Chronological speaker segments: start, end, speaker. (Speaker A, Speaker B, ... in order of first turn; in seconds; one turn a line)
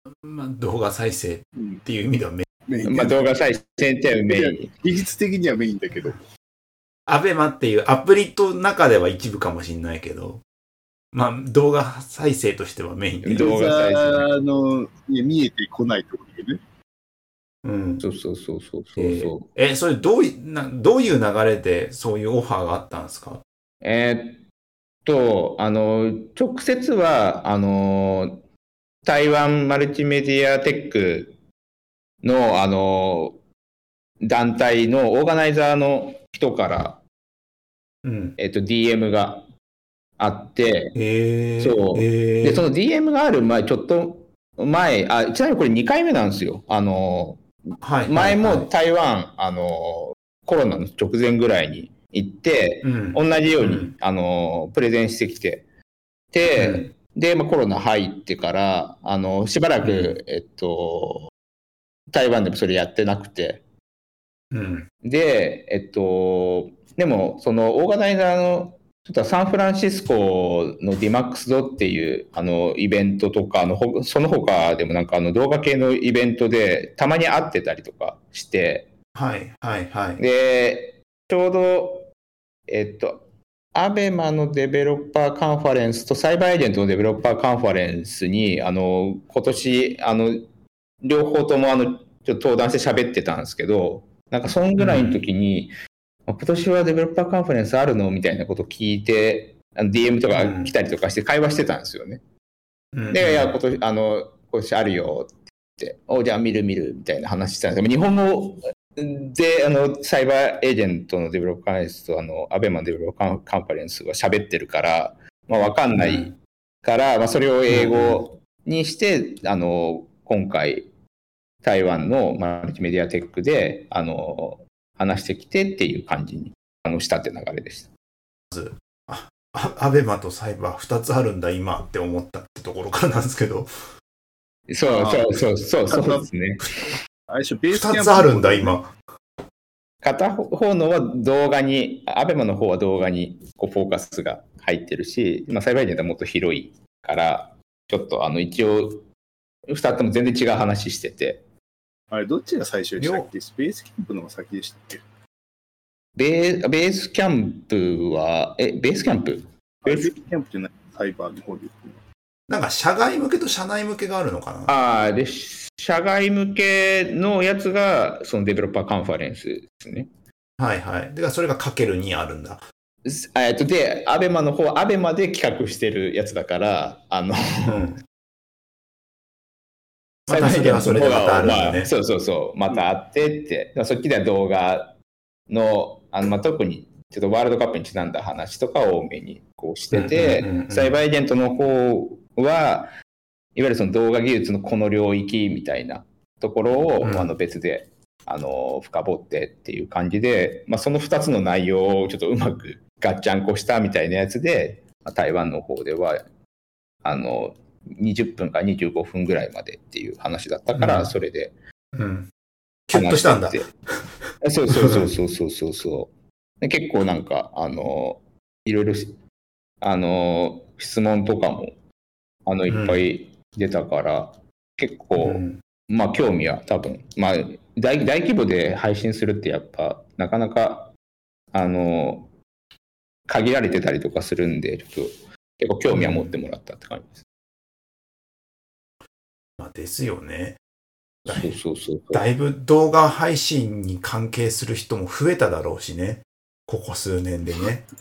Speaker A: 0.2-2.5
Speaker B: 1.6-1.8
Speaker B: 2.7-3.2
Speaker C: 2.9-4.7
Speaker B: 4.3-6.2
Speaker A: 7.1-10.4
Speaker A: 11.1-13.4
Speaker C: 13.2-14.4
Speaker B: 13.3-16.6
Speaker A: 17.6-18.0
Speaker C: 18.0-19.5
Speaker A: 19.0-23.4
Speaker C: 23.8-24.4
Speaker C: 25.1-28.4
Speaker C: 29.0-31.4
Speaker C: 32.2-33.4
Speaker C: 34.2-37.0
Speaker A: 38.0-38.4
Speaker C: 38.4-39.5
Speaker C: 40.2-41.0
Speaker A: 41.0-42.7
Speaker C: 41.6-55.7
Speaker A: 47.8-48.7
Speaker A: 52.8-53.9
Speaker C: 56.3-61.3
Speaker A: 56.6-56.9
Speaker A: 59.8-60.2
Speaker C: 62.1-63.6
Speaker A: 64.5-64.9
Speaker C: 65.0-78.9
Speaker A: 79.2-80.2
Speaker C: 80.2-82.1
Speaker C: 82.7-90.5
Speaker C: 91.0-95.7
Speaker A: 94.8-95.2
Speaker C: 96.3-102.2
Speaker A: 100.3-100.7
Speaker A: 102.9-103.5
Speaker C: 103.1-120.9
Speaker A: 116.0-116.3
Speaker A: 117.7-118.2
Speaker C: 121.6-127.9
Speaker A: 128.5-133.7
Speaker C: 134.7-136.6
Speaker B: 134.9-135.4
Speaker B: 135.9-136.3
Speaker B: 137.3-138.7
Speaker A: 137.7-138.9
Speaker C: 140.0-149.1
Speaker C: 149.7-151.4
Speaker B: 152.1-155.0
Speaker A: 153.0-153.3
Speaker C: 156.2-160.2
Speaker B: 159.8-162.0
Speaker A: 162.5-164.7
Speaker C: 164.7-170.1
Speaker A: 170.6-172.7
Speaker C: 173.1-177.7
Speaker A: 177.7-178.0
Speaker A: 180.3-181.9
Speaker C: 180.3-185.0
Speaker C: 185.5-192.9
Speaker A: 189.9-191.0
Speaker C: 193.6-206.2
Speaker A: 197.0-197.3
Speaker C: 207.0-211.5
Speaker A: 210.7-211.1
Speaker A: 211.9-212.3
Speaker A: 212.9-213.7
Speaker C: 212.9-213.7
Speaker C: 214.4-219.2
Speaker A: 214.7-215.1
Speaker C: 219.8-221.8
Speaker C: 222.5-230.9
Speaker A: 222.7-223.0
Speaker A: 225.2-225.6
Speaker C: 231.5-232.3
Speaker C: 233.3-237.2
Speaker A: 235.9-236.4
Speaker A: 239.6-240.6
Speaker A: 241.3-241.6
Speaker C: 241.3-242.2
Speaker A: 242.1-247.9